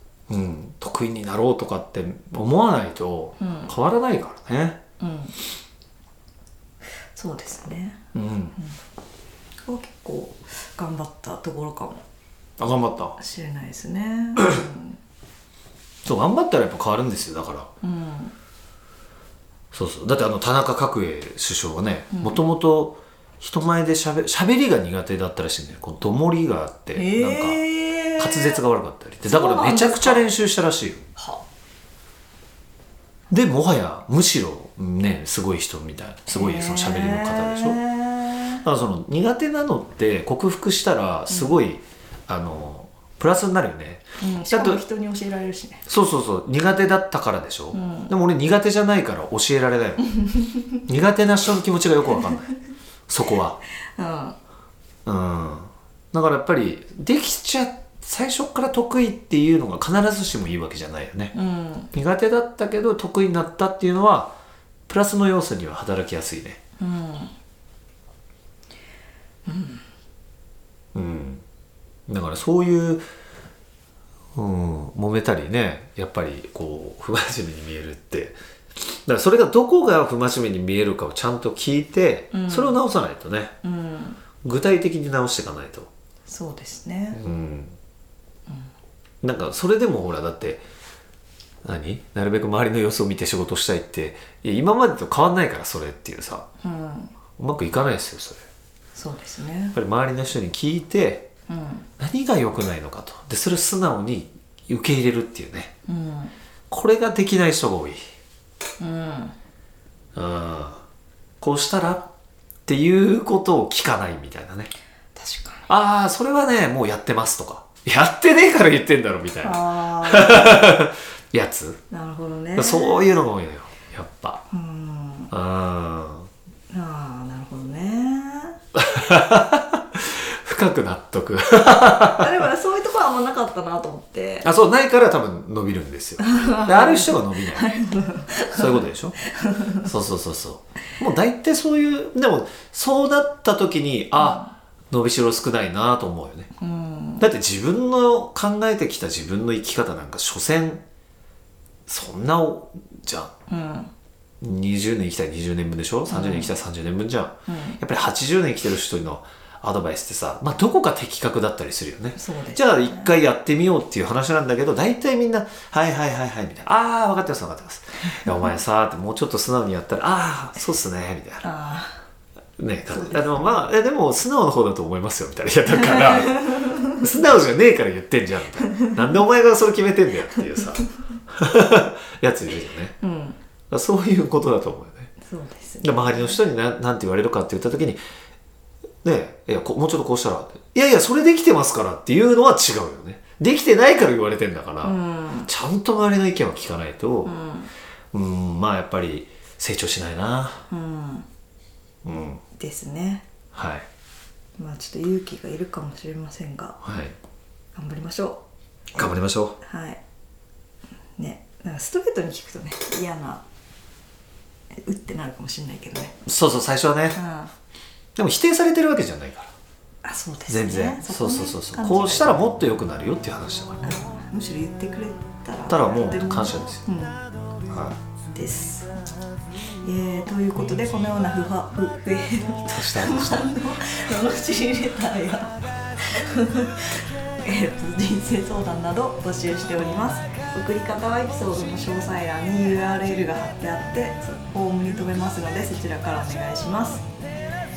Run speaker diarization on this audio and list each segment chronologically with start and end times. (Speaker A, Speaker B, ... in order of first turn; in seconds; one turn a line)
Speaker A: 0.3-4.8
Speaker B: 3.4-3.7
Speaker B: 5.0-5.4
Speaker B: 7.2-8.0
Speaker A: 8.1-8.6
Speaker B: 9.7-12.0
Speaker A: 12.6-13.2
Speaker B: 13.2-15.0
Speaker A: 16.1-17.7
Speaker B: 17.8-18.4
Speaker A: 19.7-27.6
Speaker B: 22.1-22.4
Speaker B: 26.9-28.6
Speaker A: 28.2-31.0
Speaker B: 29.3-30.3
Speaker B: 31.2-31.4
Speaker A: 33.3-37.8
Speaker B: 36.3-38.6
Speaker A: 38.6-44.8
Speaker B: 41.3-41.6
Speaker B: 44.2-45.9
Speaker A: 45.9-50.1
Speaker B: 47.7-48.1
Speaker B: 50.2-50.6
Speaker A: 50.8-52.5
Speaker A: 53.1-53.6
Speaker B: 54.0-54.4
Speaker A: 55.1-61.4
Speaker B: 61.3-61.9
Speaker A: 61.9-64.3
Speaker A: 64.9-66.6
Speaker B: 66.8-67.3
Speaker B: 69.5-69.8
Speaker A: 71.0-71.4
Speaker A: 72.1-73.0
Speaker A: 74.3-83.5
Speaker B: 82.3-82.8
Speaker B: 83.6-84.2
Speaker A: 84.4-85.9
Speaker B: 86.3-87.2
Speaker A: 87.1-87.8
Speaker A: 89.2-90.6
Speaker A: 91.6-96.5
Speaker B: 96.6-97.1
Speaker A: 97.4-98.4
Speaker B: 99.0-99.8
Speaker A: 99.7-101.3
Speaker B: 101.5-101.9
Speaker A: 102.0-105.7
Speaker B: 105.9-106.3
Speaker A: 106.7-108.0
Speaker B: 108.8-109.3
Speaker A: 110.2-110.8
Speaker A: 111.4-112.1
Speaker A: 112.7-114.7
Speaker B: 115.2-115.7
Speaker A: 115.7-121.8
Speaker B: 119.4-120.6
Speaker B: 121.9-123.1
Speaker A: 122.6-124.4
Speaker B: 124.5-125.3
Speaker A: 125.3-126.3
Speaker B: 126.7-128.6
Speaker A: 128.8-132.3
Speaker B: 132.2-134.5
Speaker A: 134.4-137.7
Speaker B: 136.2-139.9
Speaker A: 138.5-139.2
Speaker A: 139.8-146.5
Speaker B: 144.2-144.5
Speaker B: 146.6-147.3
Speaker A: 147.2-150.8
Speaker A: 151.9-153.3
Speaker B: 153.5-153.9
Speaker A: 154.4-171.5
Speaker B: 156.1-156.6
Speaker B: 157.5-157.8
Speaker B: 162.2-163.1
Speaker B: 171.4-172.1
Speaker A: 172.6-183.0
Speaker B: 172.9-173.6
Speaker B: 175.7-177.0
Speaker B: 178.6-178.9
Speaker B: 180.3-180.6
Speaker B: 183.0-183.4
Speaker A: 183.7-185.1
Speaker B: 185.2-186.4
Speaker A: 185.8-188.0
Speaker A: 189.0-197.3
Speaker B: 194.8-195.5
Speaker B: 197.2-197.7
Speaker A: 198.1-200.7
Speaker B: 200.7-201.3
Speaker A: 202.0-202.4
Speaker B: 202.6-203.2
Speaker A: 203.5-203.9
Speaker B: 204.6-206.8
Speaker A: 206.8-207.2
Speaker B: 207.8-208.4
Speaker A: 208.9-209.6
Speaker B: 209.6-210.0
Speaker B: 211.2-213.4
Speaker B: 214.8-216.2
Speaker A: 216.2-217.2
Speaker B: 217.1-217.5
Speaker A: 218.2-219.5
Speaker B: 220.0-222.3
Speaker A: 220.5-224.0
Speaker B: 223.8-227.2
Speaker A: 225.7-226.9
Speaker A: 227.7-228.0
Speaker B: 228.3-229.1
Speaker B: 229.8-247.1
Speaker A: 232.6-233.6